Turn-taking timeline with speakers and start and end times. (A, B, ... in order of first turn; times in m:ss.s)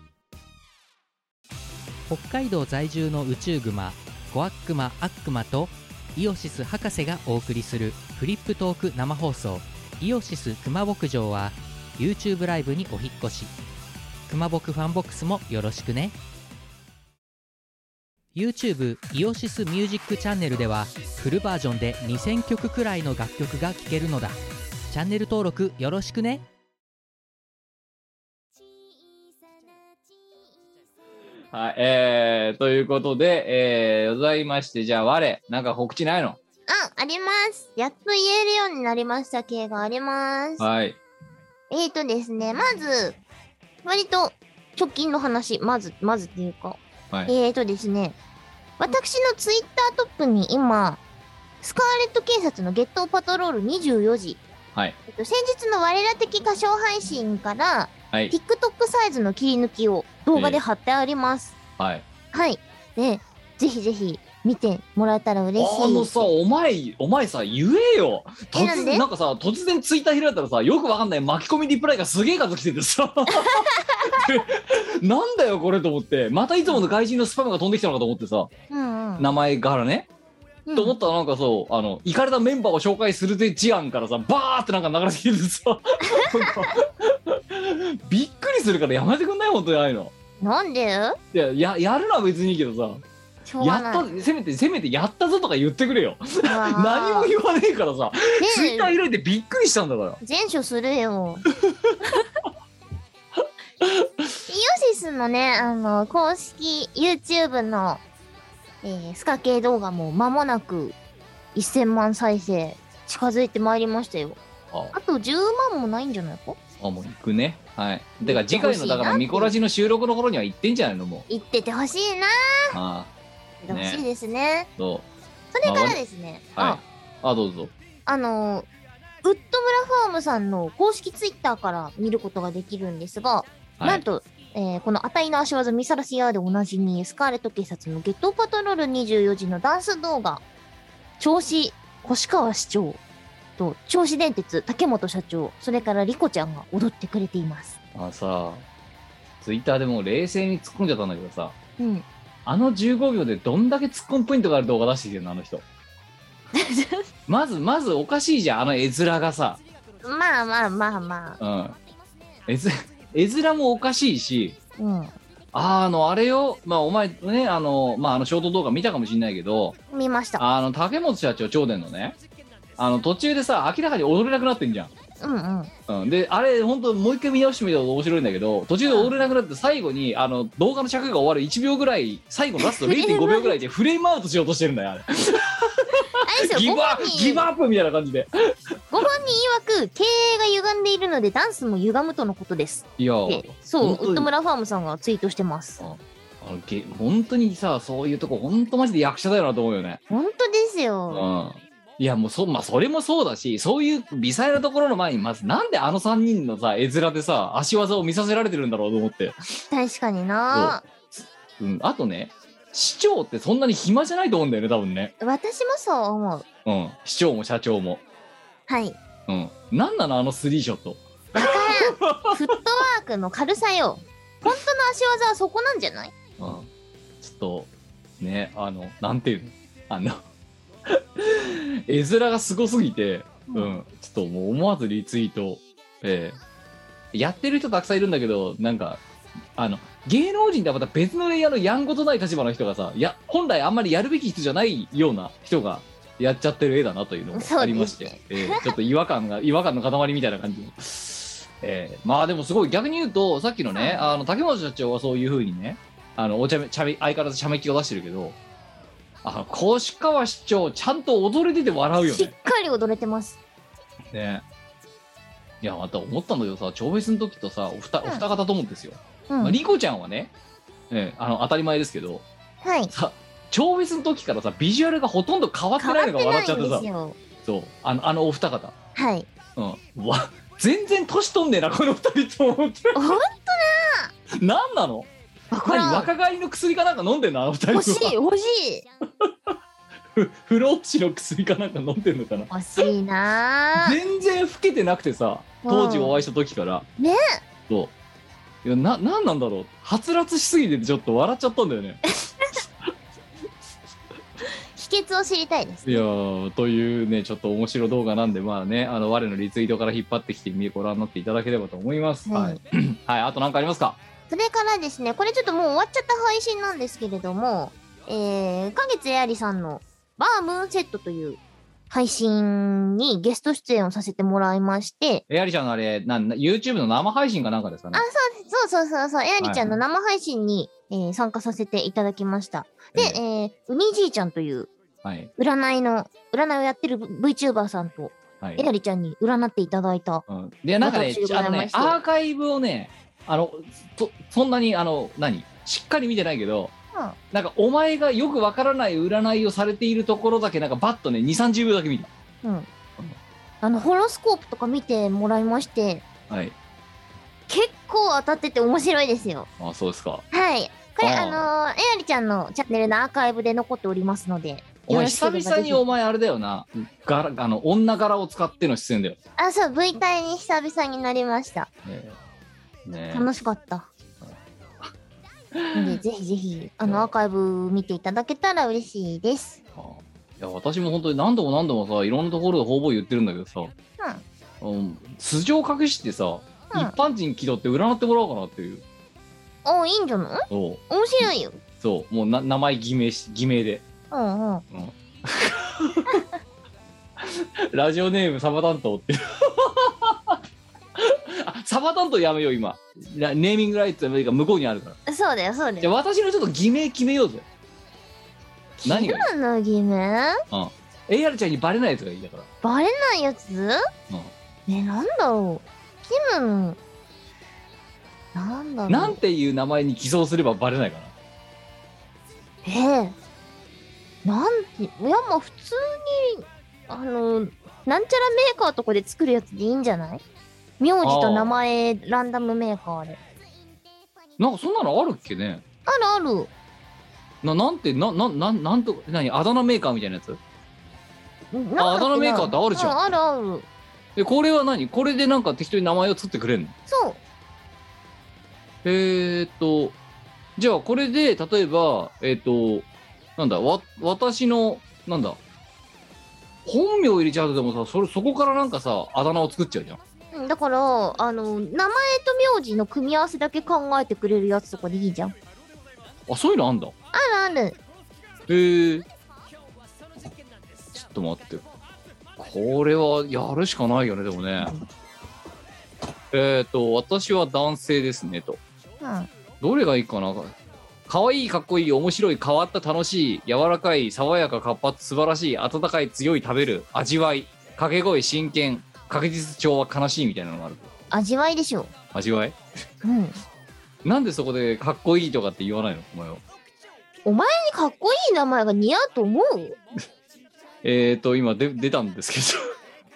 0:02.1-0:13.5 A
0:14.3-0:16.2 A
0:18.3-0:24.4 A
0:24.9-0:26.4 A
0:31.5-0:36.4 B
0:36.7-0:40.6 C
0:40.6-0:41.0 B
0:41.7-0:43.2 C
0:43.8-0:48.2 C
0:48.8-0:51.0 C
0:51.6-0:54.4 C
0:55.1-1:01.5 C
1:00.3-1:00.6 B
1:01.8-1:02.0 B
1:02.3-1:06.2 C
1:05.6-1:18.5 B
1:08.5-1:09.0 C
1:13.6-1:14.0 C
1:18.7-1:19.3 C
1:19.2-1:20.1 B
1:20.7-1:21.0 C
1:20.7-1:30.1 B
1:26.2-1:26.7 C
1:30.4-1:31.2 C
1:31.3-1:33.0 B
1:33.4-1:34.0 C
1:33.6-1:40.2 B
1:36.4-1:37.3 C
1:38.4-1:38.9 C
1:40.2-1:41.4 C
1:41.6-1:42.0 B
1:43.8-1:44.3 B
1:44.5-1:48.0 C
1:48.8-1:51.0 C
1:51.5-1:54.4 C
1:54.9-1:56.6 C
1:56.8-2:01.3 B
1:58.2-1:59.5 C
2:01.3-2:02.7 C
2:02.7-2:03.1 B
2:03.6-2:04.7 C
2:03.7-2:04.0 B
2:04.8-2:05.1 B
2:05.5-2:06.8 C
2:05.6-2:06.0 B
2:06.6-2:07.7 B
2:08.0-2:08.7 C
2:09.2-2:20.4 C
2:13.8-2:14.0 B
2:21.2-2:23.0 C
2:23.6-2:27.8 C
2:27.9-2:28.6 B
2:29.4-2:31.5 B
2:31.8-2:32.0 C
2:32.4-2:35.6 B
2:36.5-2:37.0 C
2:37.3-2:39.6 B
2:40.0-2:41.4 C
2:41.4-2:41.8 B
2:42.5-2:44.6 B
2:44.8-2:45.1 C
2:45.5-2:49.8 B
2:49.9-2:50.4 C
2:50.4-2:52.2 B
2:52.8-2:54.9 B
2:55.2-2:55.7 C
2:55.9-3:08.5 B
2:58.8-2:59.1 C
3:02.6-3:03.6 C
3:06.2-3:07.5 C
3:08.9-3:15.8 C
3:13.0-3:14.3 B
3:15.8-3:20.0 B
3:20.1-3:21.3 C
3:21.1-3:29.4 B
3:29.7-3:30.8 C
3:30.5-3:35.1 B
3:35.2-3:36.4 C
3:36.6-3:38.0 B
3:38.7-3:39.0 C
3:39.3-3:42.4 B
3:41.3-3:46.1 C
3:46.4-3:46.7 B
3:47.2-3:50.2 B
3:50.9-3:56.4 B
3:53.5-3:53.8 C
3:57.1-3:59.0 B
3:59.6-4:18.4 B
4:07.3-4:08.7 C
4:13.7-4:14.1 C
4:19.2-4:22.3 B
4:22.0-4:23.4 C
4:24.1-4:24.4 B
4:25.6-4:30.3 B
4:29.3-4:29.6 C
4:30.9-4:32.2 B
4:32.6-4:32.9 C
4:32.9-4:36.9 B
4:35.8-4:37.2 C
4:37.4-4:38.7 B
4:39.0-4:39.3 C
4:39.6-4:43.0 B
4:42.9-4:44.1 C
4:44.3-4:45.1 B
4:45.5-4:46.1 C
4:45.6-4:48.1 B
4:47.7-4:48.8 C
4:49.2-4:49.5 B
4:50.1-4:52.5 B
4:52.5-4:54.0 C
4:53.8-4:56.8 B
4:55.6-4:56.2 C
4:57.0-4:57.4 C
4:58.6-5:02.0 B
5:04.8-5:06.0 C
5:05.8-5:14.0 B
5:12.3-5:12.6 C
5:14.3-5:25.2 C
5:25.3-5:28.0 B
5:27.9-5:34.7 C
5:29.4-5:29.8 B
5:32.9-5:33.2 B
5:35.0-5:35.3 B
5:35.4-5:40.2 C
5:38.4-5:38.6 B
5:40.3-5:46.7 B
5:40.8-5:42.0 C
5:47.3-5:52.1 B
5:52.4-5:52.7 C
5:53.6-5:56.0 C
5:56.3-5:56.5 B
5:57.5-5:59.5 C
5:59.6-6:00.2 B
6:00.3-6:05.8 C
6:01.0-6:01.5 B
6:04.9-6:09.2 B
6:09.4-6:11.7 C
6:11.8-6:12.2 B
6:12.8-6:13.3 B
6:13.1-6:13.9 C
6:14.2-6:14.9 B
6:15.5-6:16.0 B
6:15.7-6:19.6 C
6:16.8-6:17.1 B
6:19.8-6:23.7 B
6:24.6-6:28.8 B
6:26.7-6:27.0 C
6:29.6-6:31.6 C
6:30.5-6:31.2 B
6:31.8-6:33.8 B
6:34.1-6:34.6 C
6:34.7-6:36.2 B
6:37.2-6:40.4 B
6:41.0-6:45.0 B
6:45.1-6:45.9 C
6:45.8-6:47.4 B
6:48.8-6:50.4 C
6:48.8-6:49.3 B
6:50.5-6:52.5 B
6:52.6-6:53.8 C
6:54.7-6:56.8 C
6:58.3-6:59.2 C
6:58.9-7:01.1 B
7:02.6-7:03.2 C
7:04.2-7:10.2 C
7:10.8-7:13.2 C
7:11.0-7:11.6 B
7:14.4-7:15.6 B
7:15.9-7:16.5 C
7:17.4-7:20.4 B
7:21.5-7:23.6 C
7:21.8-7:23.0 B
7:24.2-7:26.7 B
7:26.9-7:27.2 C
7:28.8-7:30.0 B
7:30.6-7:35.4 B
7:36.6-7:40.0 B
7:40.3-7:45.3 C
7:46.3-7:46.9 B
7:47.1-7:47.8 C
7:48.5-7:49.0 B
7:50.9-7:51.6 B
7:52.4-7:54.7 B
7:56.3-7:58.6 B
7:59.0-7:59.3 C
7:59.6-8:00.5 B
8:01.1-8:10.9 B
8:11.1-8:11.9 C
8:12.1-8:12.6 B
8:13.0-8:13.4 C
8:14.0-8:16.4 B
8:17.2-8:19.8 C
8:20.8-8:22.6 B